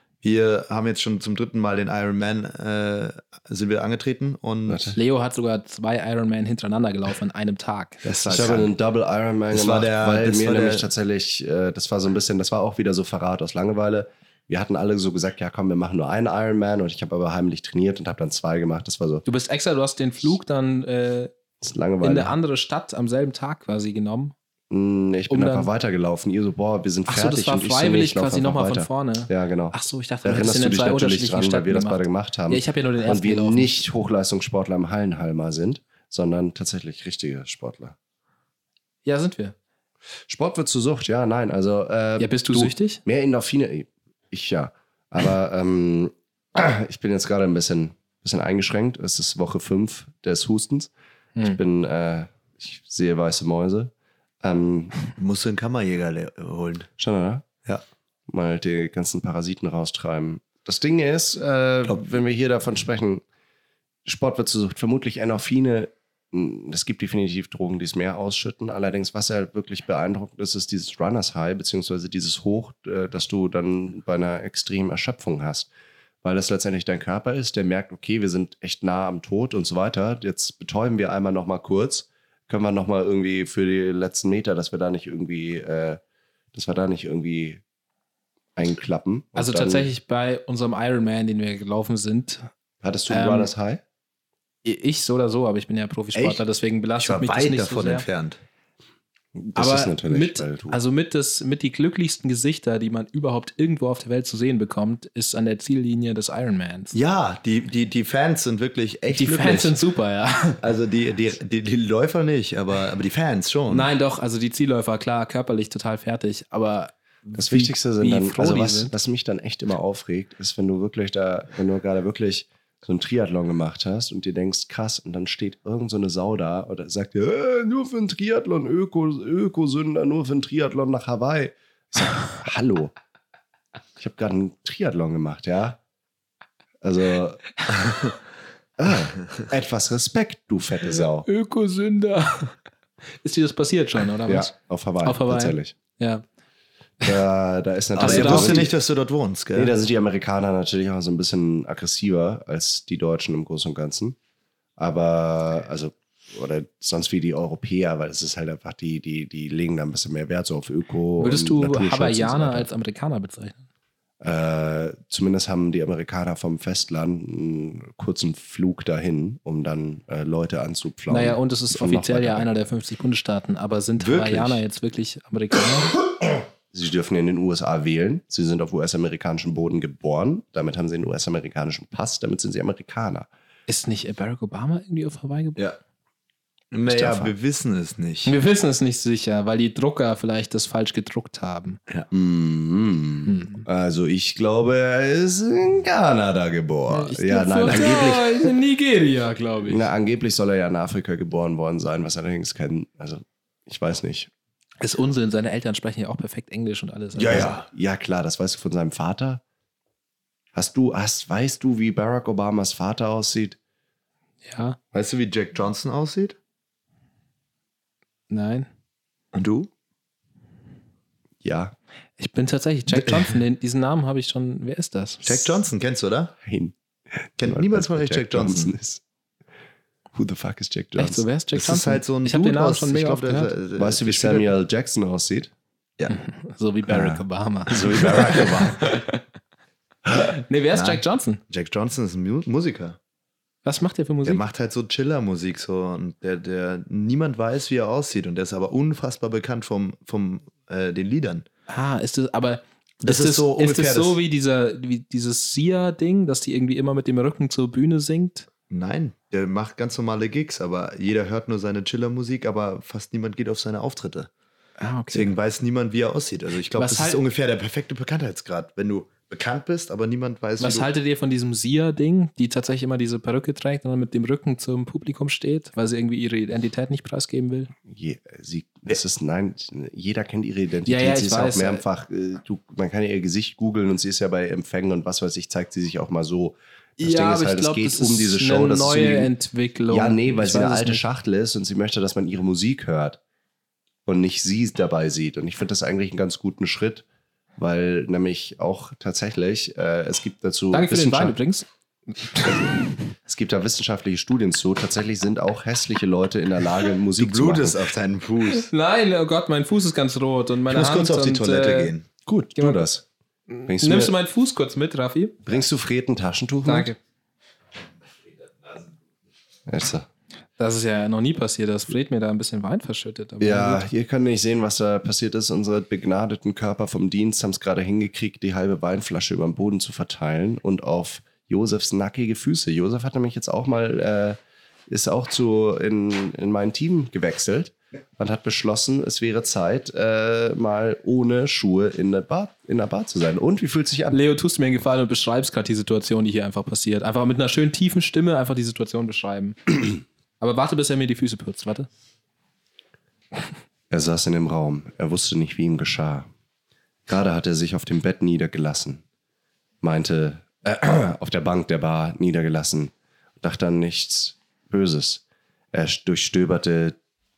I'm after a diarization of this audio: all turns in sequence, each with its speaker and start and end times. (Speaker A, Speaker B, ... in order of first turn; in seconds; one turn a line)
Speaker A: 0.2-5.0
Speaker B: 4.7-5.0
Speaker C: 4.9-8.0
Speaker A: 8.0-8.7
Speaker B: 8.2-19.2
Speaker A: 9.5-10.9
Speaker C: 19.2-21.3
Speaker B: 21.6-22.4
Speaker C: 22.0-24.3
Speaker B: 24.7-38.0
Speaker C: 25.3-25.7
Speaker C: 27.1-33.7
Speaker C: 39.0-39.5
Speaker B: 40.3-54.9
Speaker C: 42.2-43.0
Speaker A: 55.1-56.9
Speaker B: 57.0-57.4
Speaker B: 58.3-63.2
Speaker B: 64.0-75.7
Speaker B: 76.2-86.0
Speaker B: 86.5-87.6
Speaker B: 88.5-89.9
Speaker C: 89.3-92.5
Speaker B: 92.8-93.8
Speaker C: 93.1-93.5
Speaker C: 94.6-98.0
Speaker A: 96.1-96.4
Speaker A: 97.0-98.4
Speaker B: 99.3-100.8
Speaker C: 99.5-106.9
Speaker A: 106.9-109.7
Speaker C: 109.1-110.6
Speaker A: 110.6-113.9
Speaker C: 113.7-118.9
Speaker B: 117.3-132.9
Speaker B: 134.0-135.8
Speaker B: 136.8-137.6
Speaker B: 138.8-141.3
Speaker C: 141.2-142.6
Speaker C: 143.2-146.2
Speaker B: 144.3-145.7
Speaker B: 147.0-148.7
Speaker A: 148.0-149.7
Speaker C: 148.0-148.7
Speaker B: 149.5-154.2
Speaker B: 154.8-162.7
Speaker C: 161.2-163.6
Speaker B: 164.2-172.5
Speaker C: 171.1-175.9
Speaker A: 174.0-174.6
Speaker B: 176.7-183.3
Speaker C: 183.7-185.6
Speaker A: 186.7-188.3
Speaker B: 186.9-187.3
Speaker C: 188.2-191.8
Speaker B: 192.1-198.5
Speaker C: 193.2-193.6
Speaker C: 196.9-199.9
Speaker B: 199.7-204.3
Speaker C: 204.8-207.5
Speaker A: 207.1-207.7
Speaker B: 207.3-209.4
Speaker B: 210.5-213.6
Speaker C: 214.4-214.8
Speaker A: 214.9-216.3
Speaker C: 218.3-218.7
Speaker A: 219.3-219.7
Speaker B: 221.4-221.7
Speaker C: 222.2-225.4
Speaker A: 222.9-223.3
Speaker A: 225.2-226.3
Speaker B: 226.4-229.0
Speaker A: 227.4-228.7
Speaker B: 230.1-231.2
Speaker C: 230.9-233.5
Speaker A: 231.5-234.5
Speaker B: 233.8-235.5
Speaker C: 236.1-239.2
Speaker B: 236.9-238.9
Speaker A: 237.9-238.6
Speaker C: 240.1-241.4
Speaker A: 240.7-243.0
Speaker C: 243.6-244.4
Speaker A: 244.2-251.4
Speaker C: 251.7-258.5
Speaker A: 253.0-254.2
Speaker A: 258.7-264.3
Speaker C: 264.8-265.3
Speaker A: 265.1-270.9
Speaker C: 266.7-267.2
Speaker C: 270.6-277.7
Speaker B: 277.9-289.3
Speaker C: 280.9-281.8
Speaker C: 287.0-291.0
Speaker B: 289.9-293.2
Speaker B: 294.1-297.1
Speaker B: 297.6-301.3
Speaker C: 300.7-301.7
Speaker B: 303.2-307.8
Speaker A: 307.2-308.7
Speaker C: 308.5-311.9
Speaker A: 310.7-312.1
Speaker B: 312.2-313.0
Speaker C: 312.6-312.8
Speaker C: 313.5-315.4
Speaker B: 313.7-314.1
Speaker B: 315.4-316.9
Speaker C: 316.6-317.0
Speaker B: 319.7-320.1
Speaker C: 320.6-323.8
Speaker B: 323.4-344.2
Speaker C: 344.1-349.7
Speaker C: 350.4-351.9
Speaker B: 353.9-356.3
Speaker B: 357.1-359.0
Speaker B: 359.8-365.2
Speaker B: 365.7-366.9